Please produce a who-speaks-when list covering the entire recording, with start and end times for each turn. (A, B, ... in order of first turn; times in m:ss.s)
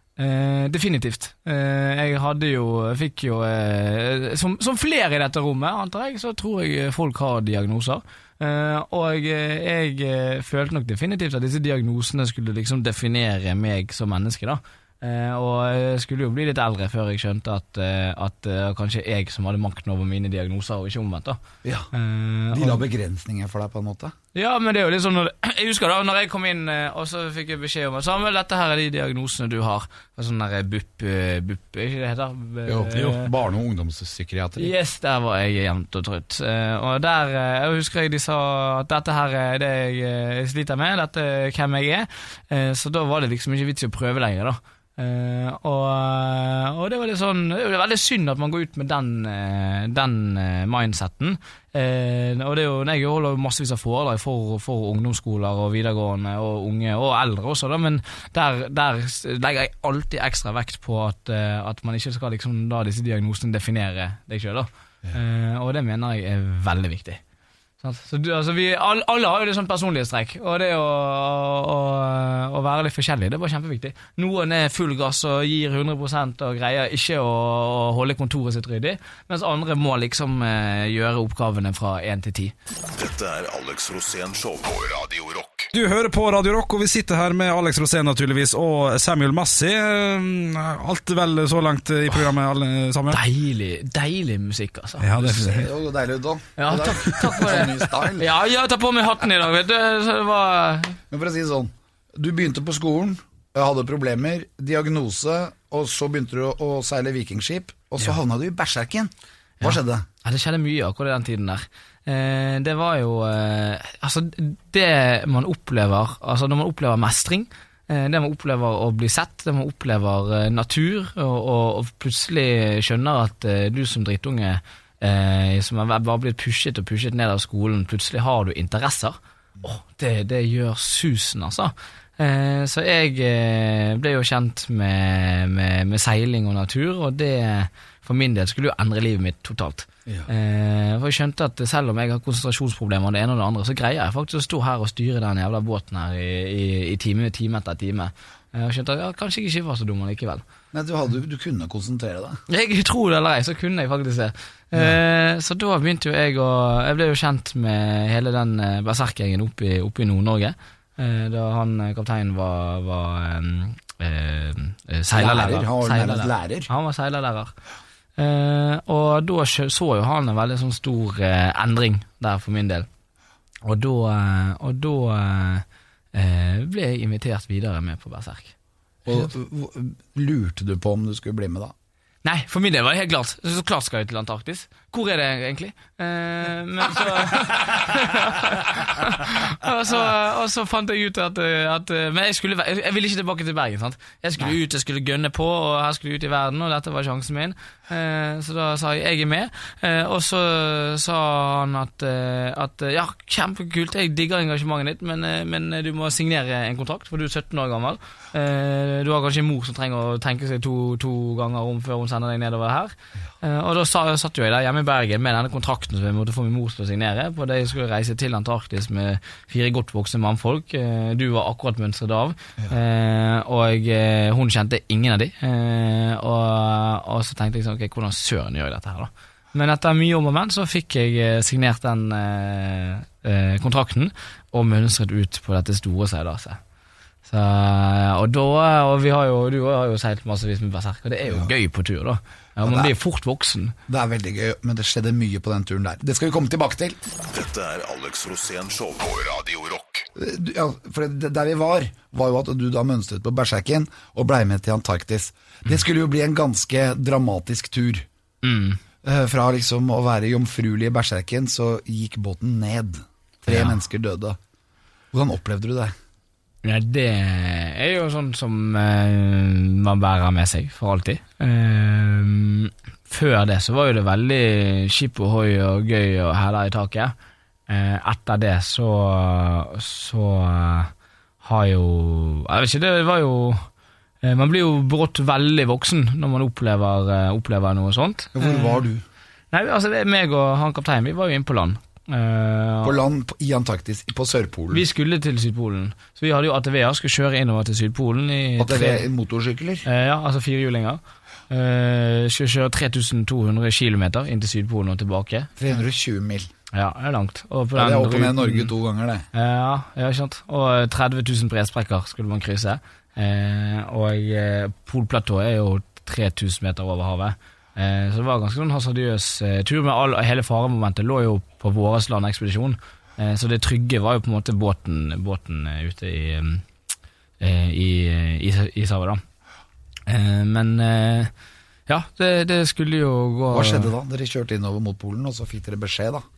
0:00.2-0:21.4 A
0:21.6-0:21.9 B
0:21.9-0:22.8 A
0:22.5-0:24.1 B
0:24.3-0:33.3 A
0:32.7-0:34.7 B
0:32.9-0:33.2 C
0:34.6-1:07.2 A
1:07.8-1:22.5 A
1:22.9-1:25.7 D
1:25.7-1:33.2 C
1:33.1-1:35.7 A
1:35.0-1:35.7 C
1:35.2-1:38.3 B
1:36.6-1:41.0 A
1:41.1-1:50.1 B
1:49.6-2:30.4 A
2:30.7-2:32.4 B
2:32.5-2:47.5 A
2:45.1-2:46.7 B
2:48.2-2:52.9 A
2:53.6-2:58.5 A
2:59.1-3:01.7 B
3:02.2-3:56.6 A
3:57.3-4:03.8 A
4:02.6-4:03.0 B
4:03.9-4:07.0 B
4:07.1-4:10.1 D
4:10.2-4:18.1 B
4:18.4-4:18.8 A
4:19.0-4:24.4 B
4:23.5-4:23.8 A
4:25.1-4:25.9 B
4:26.6-4:37.1 A
4:37.7-4:43.7 A
4:44.2-4:48.8 A
4:48.3-4:49.0 B
4:49.5-4:53.0 A
4:52.8-4:54.8 B
4:54.7-4:59.1 A
4:58.6-4:59.9 B
4:59.8-5:05.5 A
5:05.6-5:06.5 B
5:06.7-5:08.7 A
5:07.8-5:09.3 B
5:09.3-5:26.6 A
5:27.4-5:29.2 A
5:30.1-5:31.3 A
5:31.9-5:33.9 A
5:33.5-5:36.2 B